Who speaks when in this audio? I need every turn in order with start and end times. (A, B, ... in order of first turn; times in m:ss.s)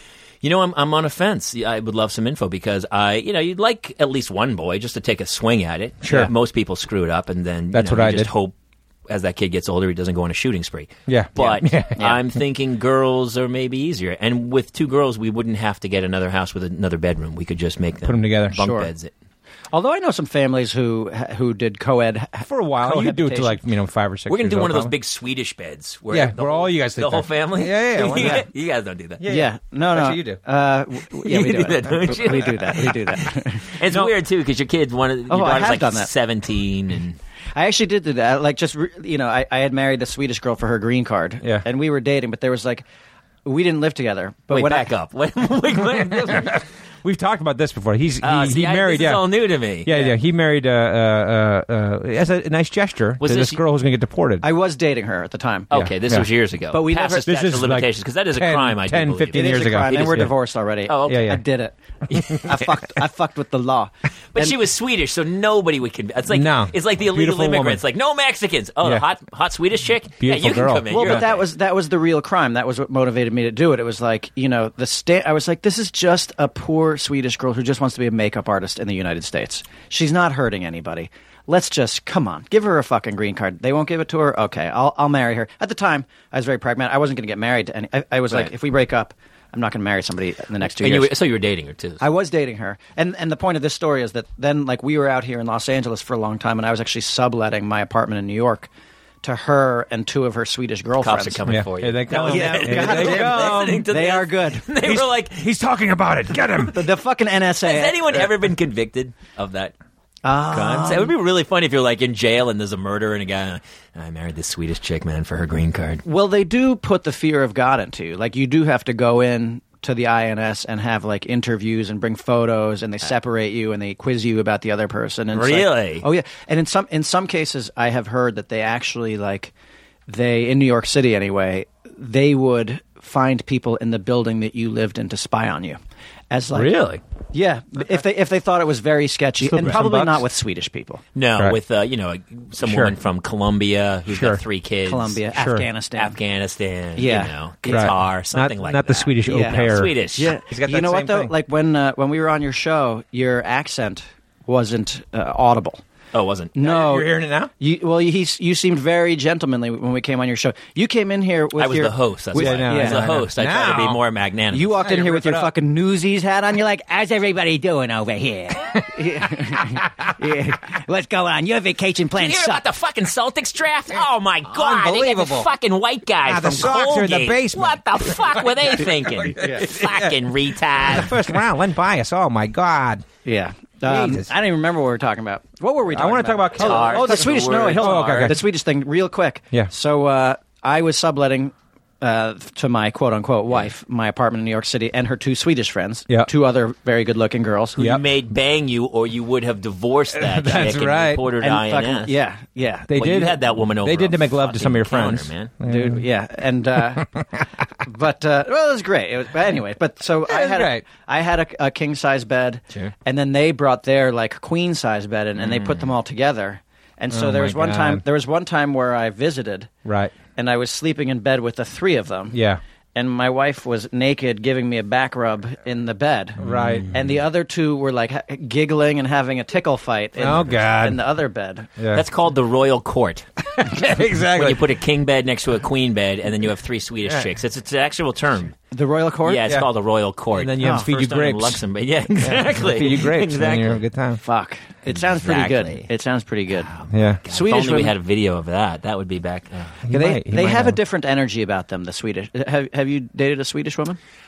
0:00.4-0:08.5 A
0:06.0-0:06.3 B
0:07.7-0:08.3 B
0:09.1-0:19.1 A
0:11.1-0:12.0 B
0:18.0-0:18.6 B
0:18.6-0:18.9 C
0:19.7-0:23.6 C
0:22.4-0:24.9 B
0:24.3-0:29.2 A
0:26.1-0:28.4 B
0:29.2-0:30.4 B
0:29.2-0:34.1 C
0:31.2-0:37.2 A
0:35.3-0:36.1 C
0:37.5-0:42.8 C
0:43.4-0:44.9 C
0:44.5-0:46.6 A
0:46.3-0:49.2 B
0:48.2-0:49.9 A
0:49.8-0:54.4 B
0:53.2-0:53.6 A
0:54.4-0:55.7 C
0:55.7-1:00.2 A
0:55.7-0:56.3 B
0:56.7-0:57.3 C
0:57.2-1:00.3 B
0:59.3-1:04.6 C
1:00.9-1:01.3 A
1:01.0-1:01.4 B
1:02.1-1:02.5 B
1:04.3-1:11.4 A
1:06.3-1:07.8 B
1:10.2-1:11.2 B
1:10.9-1:31.1 C
1:30.6-1:32.0 A
1:32.0-1:38.7 C
1:39.2-1:41.4 C
1:41.0-1:45.5 A
1:41.4-1:43.9 B
1:42.1-1:44.7 C
1:44.8-1:46.8 B
1:46.4-1:46.7 A
1:46.7-1:48.3 C
1:47.6-1:49.7 A
1:50.2-1:51.1 C
1:50.5-1:56.0 A
1:56.0-2:09.5 C
2:05.3-2:06.0 A
2:10.1-2:15.8 C
2:16.3-2:16.7 C
2:16.5-2:17.0 B
2:17.3-2:21.0 C
2:19.4-2:20.2 B
2:21.1-2:25.2 A
2:22.6-2:22.9 B
2:24.1-2:24.4 B
2:24.8-2:26.2 C
2:25.3-2:25.6 B
2:26.0-2:30.4 A
2:27.0-2:27.9 C
2:27.7-2:29.9 B
2:29.2-2:35.8 C
2:30.5-2:31.3 B
2:36.1-2:36.5 A
2:36.5-2:43.0 C
2:36.6-2:37.5 B
2:41.5-2:44.8 A
2:42.3-2:44.0 B
2:44.5-2:52.6 C
2:44.8-2:45.5 B
2:49.5-2:49.8 B
2:52.2-3:01.2 A
2:54.5-2:55.5 B
2:56.2-3:00.2 B
2:59.4-2:59.7 C
3:00.8-3:03.0 B
3:03.2-3:17.8 C
3:03.8-3:04.3 B
3:05.9-3:08.4 B
3:06.5-3:08.4 A
3:17.8-3:22.2 A
3:20.1-3:21.3 B
3:21.4-3:22.9 C
3:22.9-3:26.0 B
3:22.9-3:25.5 A
3:25.6-3:27.1 C
3:27.0-3:27.2 B
3:27.8-3:39.7 C
3:30.3-3:30.8 B
3:35.4-3:35.9 A
3:37.1-3:38.0 B
3:39.8-3:40.1 B
3:40.3-3:42.4 C
3:42.3-3:42.6 B
3:42.9-3:51.7 C
3:46.4-3:46.9 B
3:46.4-3:46.9 A
3:50.2-3:51.0 B
3:51.8-3:52.0 B
3:51.9-3:53.2 A
3:53.5-3:54.7 B
3:54.2-3:58.6 A
3:58.7-3:59.4 C
3:59.2-4:03.8 A
4:00.3-4:01.6 B
4:00.6-4:00.9 C
4:02.2-4:04.2 B
4:04.2-4:06.7 C
4:04.9-4:05.9 A
4:06.5-4:09.8 A
4:06.9-4:07.2 B
4:07.3-4:07.9 C
4:09.8-4:10.8 B
4:09.9-4:14.0 C